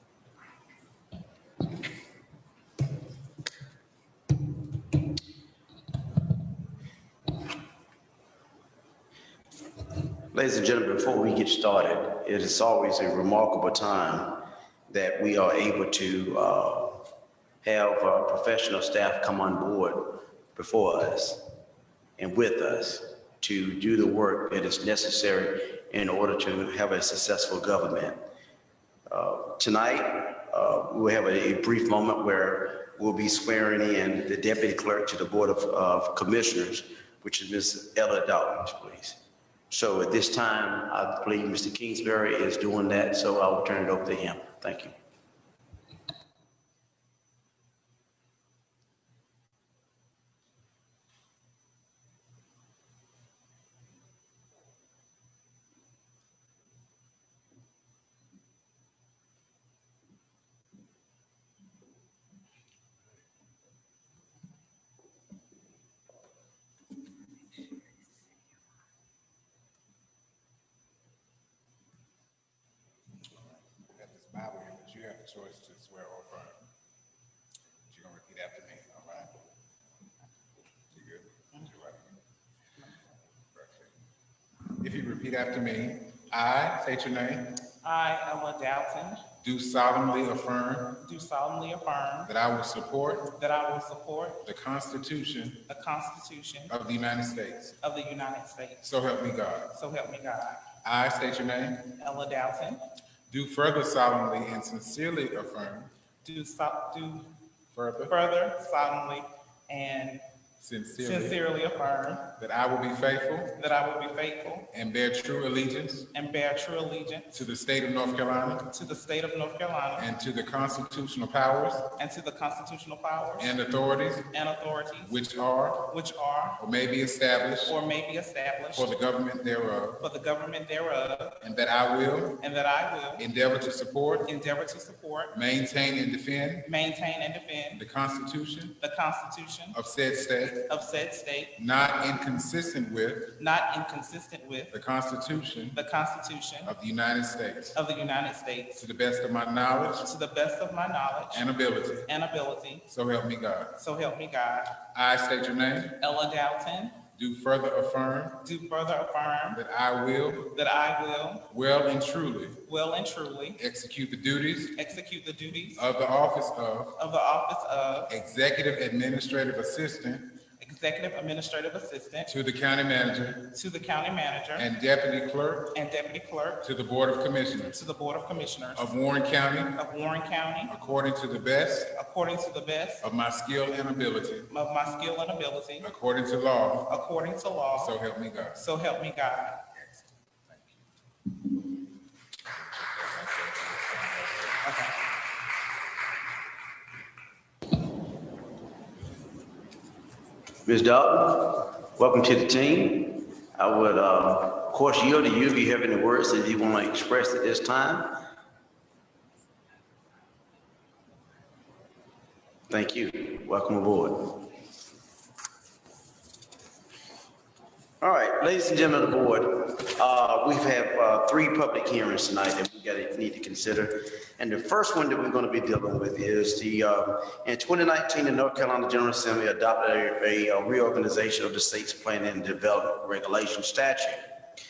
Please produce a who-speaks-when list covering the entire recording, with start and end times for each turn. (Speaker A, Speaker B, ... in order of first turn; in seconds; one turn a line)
Speaker A: 10.3-17.1
Speaker A: 17.6-21.4
Speaker A: 22.2-28.2
Speaker A: 29.1-39.2
Speaker A: 39.7-44.9
Speaker B: 73.8-76.6
Speaker B: 77.9-79.4
Speaker B: 80.9-82.1
Speaker B: 83.5-83.9
Speaker B: 84.8-87.6
Speaker C: 87.8-89.2
Speaker B: 89.4-91.0
Speaker C: 91.0-92.3
Speaker B: 92.2-93.3
Speaker C: 93.3-94.4
Speaker B: 94.4-95.7
Speaker C: 95.7-96.7
Speaker B: 96.7-97.8
Speaker C: 97.8-98.8
Speaker B: 98.8-99.7
Speaker C: 99.7-100.6
Speaker B: 100.8-101.9
Speaker C: 102.0-102.8
Speaker B: 103.3-105.9
Speaker C: 106.2-107.3
Speaker B: 107.7-108.1
Speaker C: 108.1-110.2
Speaker B: 110.6-111.4
Speaker C: 111.0-112.3
Speaker B: 112.4-113.6
Speaker C: 113.6-114.7
Speaker B: 114.7-116.1
Speaker C: 116.1-117.3
Speaker B: 117.3-118.7
Speaker C: 118.7-120.1
Speaker B: 120.0-121.9
Speaker C: 122.0-123.5
Speaker B: 123.4-124.3
Speaker C: 124.3-125.2
Speaker B: 125.0-125.9
Speaker C: 125.9-126.6
Speaker B: 126.6-127.8
Speaker C: 127.7-128.9
Speaker B: 128.7-130.0
Speaker C: 130.0-131.4
Speaker B: 131.4-132.4
Speaker C: 132.4-133.3
Speaker B: 133.2-134.3
Speaker C: 134.2-135.3
Speaker B: 135.3-136.7
Speaker C: 136.6-137.8
Speaker B: 137.7-138.8
Speaker C: 138.8-139.8
Speaker B: 139.7-140.7
Speaker C: 140.7-141.5
Speaker B: 141.6-143.3
Speaker C: 143.3-144.7
Speaker B: 144.7-145.8
Speaker C: 145.7-146.7
Speaker B: 146.6-147.8
Speaker C: 147.7-148.8
Speaker B: 148.8-150.1
Speaker C: 150.0-151.5
Speaker B: 151.3-152.1
Speaker C: 152.1-152.8
Speaker B: 152.9-153.7
Speaker C: 153.7-154.8
Speaker B: 154.9-156.0
Speaker C: 156.0-157.0
Speaker B: 157.1-158.4
Speaker C: 158.4-159.6
Speaker B: 159.5-160.5
Speaker C: 160.5-161.5
Speaker B: 161.5-162.6
Speaker C: 162.6-163.6
Speaker B: 163.6-164.8
Speaker C: 164.8-165.9
Speaker B: 165.8-166.9
Speaker C: 166.9-168.1
Speaker B: 168.1-170.3
Speaker C: 170.6-172.3
Speaker B: 172.3-173.5
Speaker C: 173.5-174.7
Speaker B: 174.6-175.8
Speaker C: 175.7-176.6
Speaker B: 176.6-177.8
Speaker C: 177.7-178.9
Speaker B: 178.8-179.8
Speaker C: 179.7-180.7
Speaker B: 180.7-181.9
Speaker C: 181.9-183.1
Speaker B: 183.0-184.5
Speaker C: 184.5-185.9
Speaker B: 185.8-186.9
Speaker C: 186.8-188.0
Speaker B: 187.8-188.6
Speaker C: 188.5-189.6
Speaker B: 192.6-194.6
Speaker C: 194.6-194.9
Speaker A: 200.7-208.2
Speaker A: 212.7-214.5
Speaker A: 218.0-234.2